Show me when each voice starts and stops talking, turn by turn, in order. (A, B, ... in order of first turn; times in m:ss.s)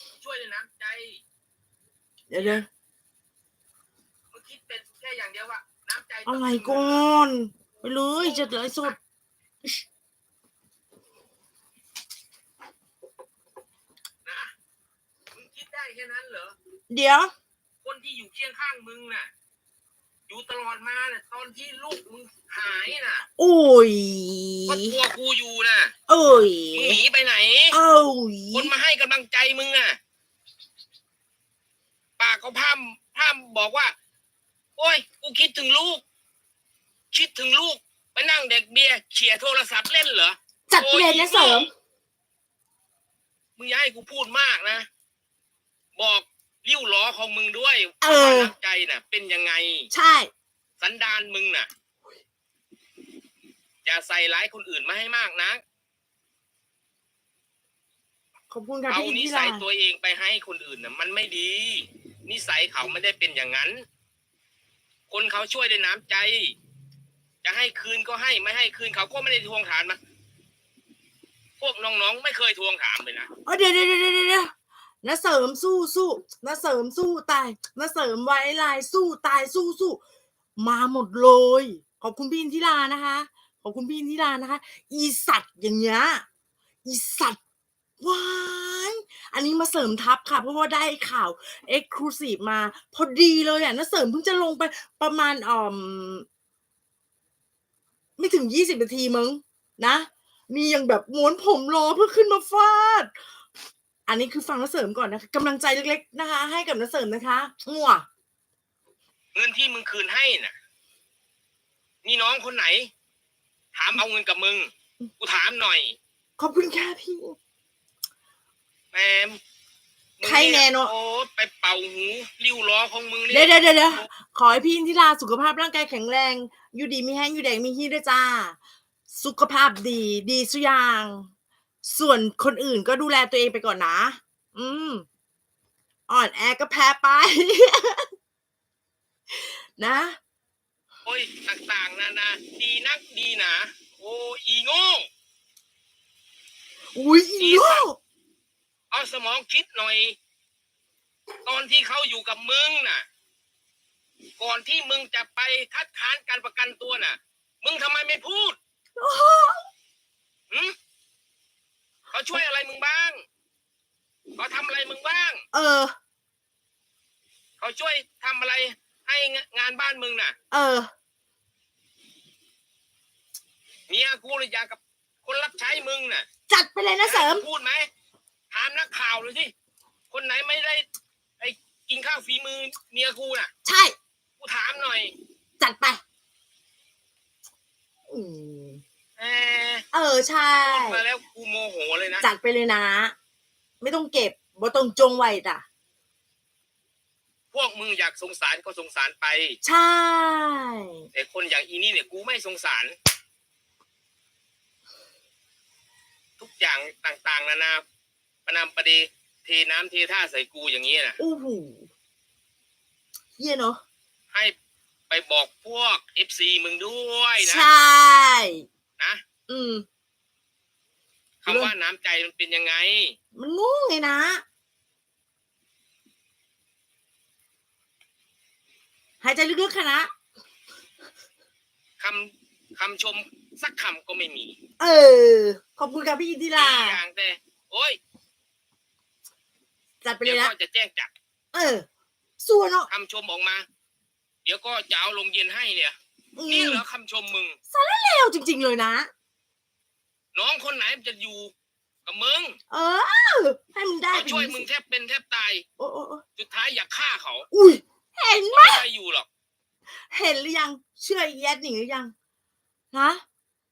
0:00.2-0:01.2 A
0:02.3-0:02.7 B
0:02.3-0:02.6 A
0:04.3-0:07.0 A
0:06.2-0:09.0 B
0:08.2-0:08.9 A
0:14.2-0:14.5 A
0:15.3-0:16.5 A
0:16.9-0:17.3 B
0:17.8-0:19.3 A
0:20.3-0:23.2 A
0:23.4-0:24.9 B
0:24.7-0:25.9 A
0:26.1-0:27.0 B
0:26.7-0:27.8 A
0:27.7-0:28.7 B
0:28.5-0:30.0 A
0:32.2-0:33.9 A
0:34.8-0:36.0 A
0:37.1-0:41.7 A
0:40.7-0:41.7 B
0:43.6-0:44.9 A
0:46.0-0:49.9 A
0:48.0-0:48.5 B
0:49.9-0:50.3 B
0:50.8-0:51.7 A
0:53.8-0:55.6 A
0:58.5-0:59.6 B
0:58.9-1:03.8 A
1:05.1-1:06.5 A
1:07.4-1:10.0 A
1:11.6-1:13.3 A
1:13.4-1:14.5 B
1:15.0-1:20.0 B
1:20.6-1:26.2 B
1:26.8-1:27.4 B
1:28.0-1:36.3 B
1:38.2-1:43.1 B
1:44.1-1:48.0 B
1:49.3-1:50.5 A
1:52.0-1:52.9 A
1:53.7-1:56.0 A
1:56.4-1:57.4 B
1:58.9-1:59.4 A
2:00.2-2:04.1 A
2:00.2-2:00.9 B
2:03.3-2:08.6 B
2:09.1-2:11.3 B
2:11.8-2:15.0 B
2:16.1-2:18.1 B
2:19.8-2:20.2 B
2:21.0-2:25.1 A
2:26.9-2:28.0 B
2:27.4-2:27.8 A
2:28.9-2:30.2 A
2:31.4-2:33.0 A
2:34.4-2:38.6 A
2:39.0-2:39.7 B
2:42.1-2:43.2 A
2:44.4-2:45.4 A
2:45.5-2:45.9 B
2:47.6-2:50.3 A
2:50.5-2:50.9 B
2:53.9-2:56.2 A
2:56.5-2:57.4 B
2:57.0-2:57.9 A
2:58.5-2:59.5 A
3:00.1-3:00.9 A
3:01.4-3:03.5 A
3:03.6-3:03.9 B
3:04.4-3:05.1 A
3:05.6-3:06.0 B
3:08.1-3:08.8 B
3:09.2-3:09.8 A
3:09.9-3:11.0 B
3:10.6-3:12.3 A
3:12.2-3:13.1 B
3:13.8-3:15.6 B
3:17.5-3:19.6 A
3:19.6-3:21.1 B
3:21.1-3:23.0 A
3:26.4-3:27.8 A
3:28.4-3:31.2 A
3:31.2-3:31.9 B
3:33.4-3:33.8 B
3:35.1-3:37.7 A
3:37.4-3:38.6 B
3:39.5-3:39.8 B
3:41.4-3:43.2 A
3:41.5-3:41.7 B
3:43.4-3:44.4 B
3:49.2-3:50.1 B
3:52.0-3:54.6 A
3:54.8-3:57.0 B
3:56.6-3:58.0 A
4:00.0-4:00.5 B
4:00.2-4:01.1 A
4:01.5-4:01.8 B
4:02.4-4:02.9 B
4:02.9-4:03.6 A
4:04.4-4:06.0 A
4:06.4-4:06.8 B
4:06.5-4:07.6 A
4:07.7-4:09.1 B
4:10.3-4:11.5 A
4:12.0-4:12.6 A
4:12.7-4:14.6 B
4:14.1-4:15.6 A
4:15.8-4:16.2 B
4:16.4-4:17.5 A
4:17.5-4:18.8 B
4:18.5-4:19.3 A
4:20.1-4:22.1 B
4:22.9-4:23.2 B